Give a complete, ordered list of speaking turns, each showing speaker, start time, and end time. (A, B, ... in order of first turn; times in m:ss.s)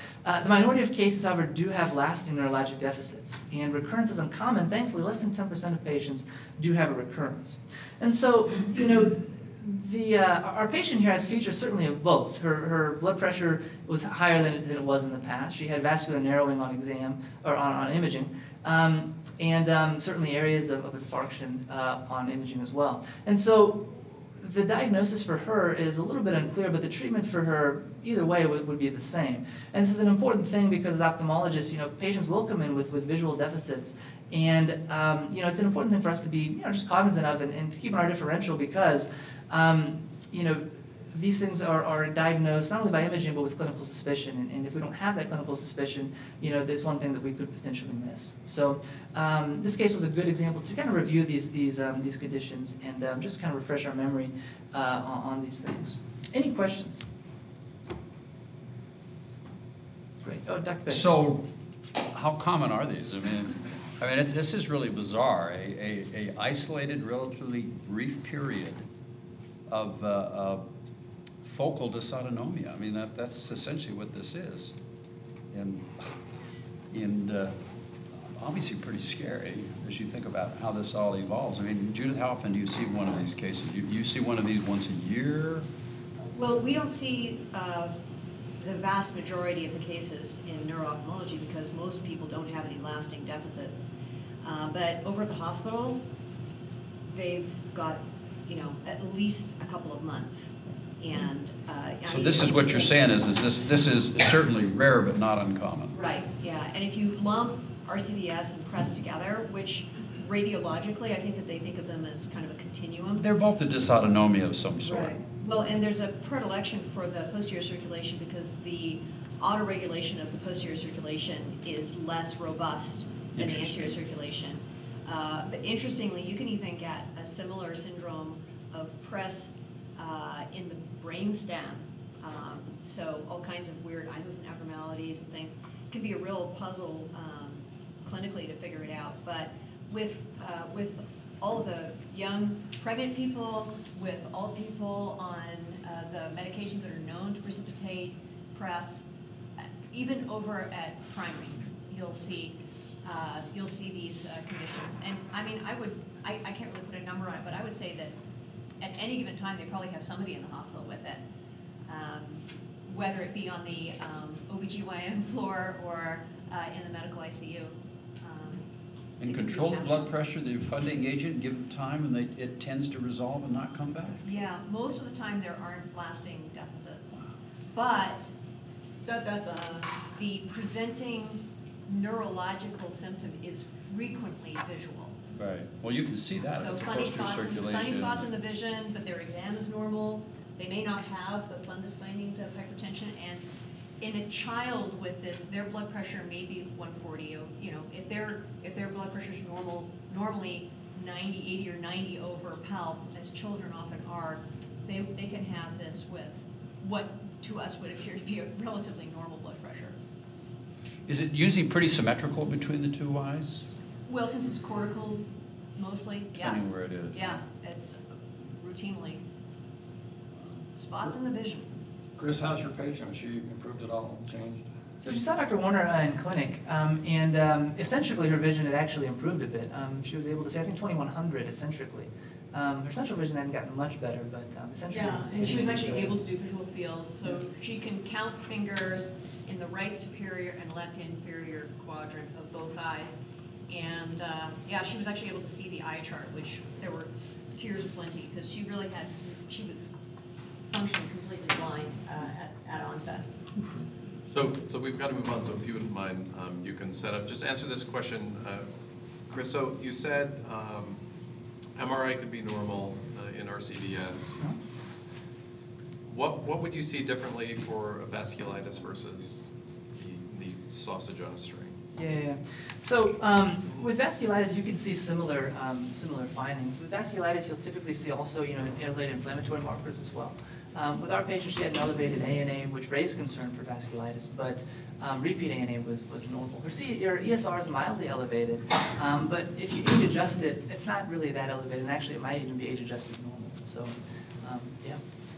0:00.2-0:57.0 A
1:00.2-1:01.1 A
1:00.9-1:01.4 B
1:02.0-1:08.8 B
1:09.7-1:10.6 B
1:11.4-1:14.7 B
1:15.5-1:15.9 B
1:16.9-1:17.5 B
1:18.3-1:25.6 B
1:26.3-1:28.0 C
1:28.6-1:33.9 C
1:34.4-1:36.0 C
1:37.1-1:40.3 C
1:41.0-1:43.1 C
1:42.1-1:46.0 B
1:45.9-1:53.2 C
1:53.2-1:55.2 B
1:54.8-2:29.0 C
2:03.3-2:03.9 B
2:29.6-2:38.2 C
2:38.8-2:41.2 C
2:41.9-2:48.6 C
2:49.2-2:54.2 B
2:49.2-2:50.1 C
2:54.2-2:58.3 C
2:59.0-3:05.2 C
3:05.4-3:08.3 B
3:06.5-3:13.4 C
3:14.0-3:30.0 C
3:31.0-3:33.6 B
3:34.0-3:38.0 C
3:36.4-3:37.4 B
3:38.5-3:39.2 C
3:40.8-3:41.8 C
3:42.2-3:44.6 D
3:45.0-3:56.2 A
3:54.9-4:09.9 C
4:10.7-4:13.3 C
4:14.3-4:18.7 E
4:19.2-4:21.0 E
4:21.7-4:24.4 E
4:26.1-4:31.8 E
4:31.9-4:55.0 A